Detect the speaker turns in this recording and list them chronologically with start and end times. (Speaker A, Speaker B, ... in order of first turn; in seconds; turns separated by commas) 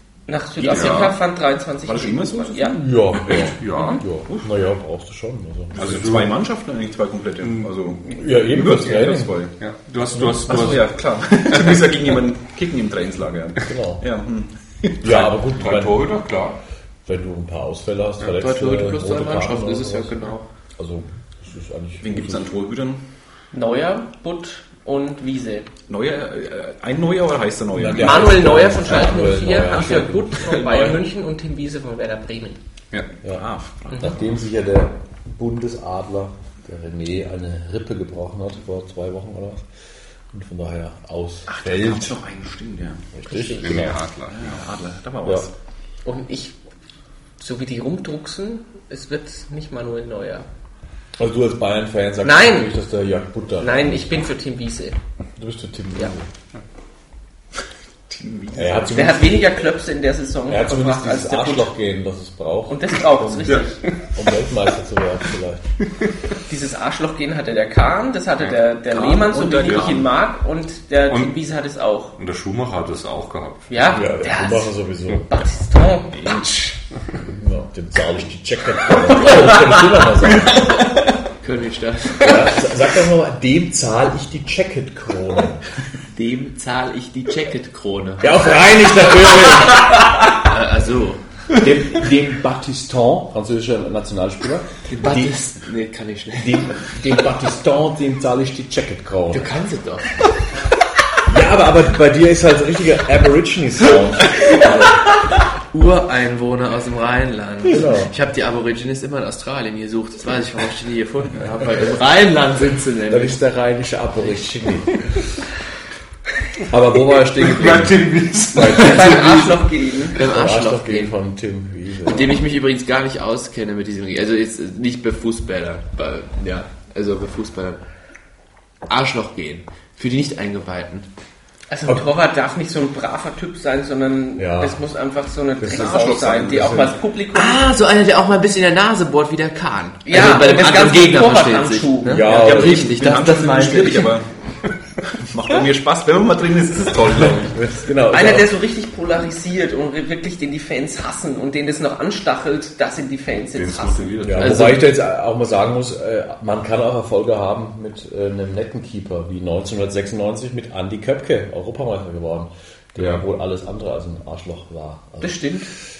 Speaker A: 0.3-2.8, Speaker B: 0.6-1.1, Speaker C: 0.7-1.0, Speaker C: 1.8-2.8, Speaker D: 2.7-6.2, Speaker B: 3.2-4.0, Speaker C: 5.8-9.5, Speaker B: 5.8-6.3, Speaker D: 8.1-9.3, Speaker B: 9.6-10.9, Speaker C: 10.4-15.0, Speaker D: 13.6-14.0, Speaker D: 15.0-16.1, Speaker B: 15.0-16.6, Speaker D: 17.0-22.5, Speaker E: 18.3-20.4, Speaker C: 22.0-23.0, Speaker A: 23.5-25.7, Speaker C: 25.9-28.6, Speaker D: 27.7-31.0, Speaker A: 28.0-32.6, Speaker C: 33.2-34.2, Speaker D: 33.9-39.6, Speaker D: 40.3-42.2, Speaker C: 41.5-43.0, Speaker D: 43.1-44.0, Speaker A: 43.2-43.9, Speaker B: 43.6-44.5, Speaker C: 44.3-45.5, Speaker A: 46.0-46.5, Speaker A: 47.4-50.5, Speaker D: 51.2-54.2, Speaker A: 52.2-52.7, Speaker A: 53.6-55.0, Speaker D: 55.4-56.3, Speaker C: 58.1-59.2, Speaker D: 58.5-59.4, Speaker A: 58.9-61.7, Speaker D: 60.5-65.7, Speaker A: 62.7-63.8, Speaker B: 63.5-64.1, Speaker A: 66.5-72.1, Speaker C: 68.9-70.1, Speaker B: 71.1-71.4, Speaker B: 72.2-74.0, Speaker A: 73.7-74.7, Speaker D: 73.9-75.3, Speaker A: 75.3-76.3, Speaker C: 76.1-76.8, Speaker D: 77.2-80.8, Speaker E: 81.4-82.5, Speaker D: 82.2-85.6, Speaker E: 86.1-88.3, Speaker D: 88.2-90.1, Speaker E: 90.3-91.2, Speaker D: 91.5-95.3, Speaker E: 94.9-96.8, Speaker D: 96.4-99.5, Speaker E: 99.3-100.2, Speaker D: 101.2-105.0, Speaker E: 105.7-113.4, Speaker D: 107.7-108.1, Speaker D: 113.1-115.1, Speaker D: 116.7-119.3, Speaker B: 117.4-119.4, Speaker A: 118.6-120.2, Speaker E: 120.1-121.1, Speaker D: 120.2-122.4, Speaker E: 122.0-127.8, Speaker E: 128.9-131.1, Speaker A: 131.7-137.7, Speaker D: 134.4-134.8, Speaker D: 135.6-137.0, Speaker C: 135.7-136.7, Speaker E: 137.3-144.1, Speaker A: 140.1-142.3, Speaker D: 142.0-142.9, Speaker C: 142.2-144.3, Speaker C: 145.1-147.6, Speaker D: 147.4-148.5, Speaker A: 148.0-154.3, Speaker B: 153.5-154.8, Speaker D: 154.2-165.5, Speaker E: 154.4-154.8, Speaker B: 163.0-163.2, Speaker A: 165.2-165.7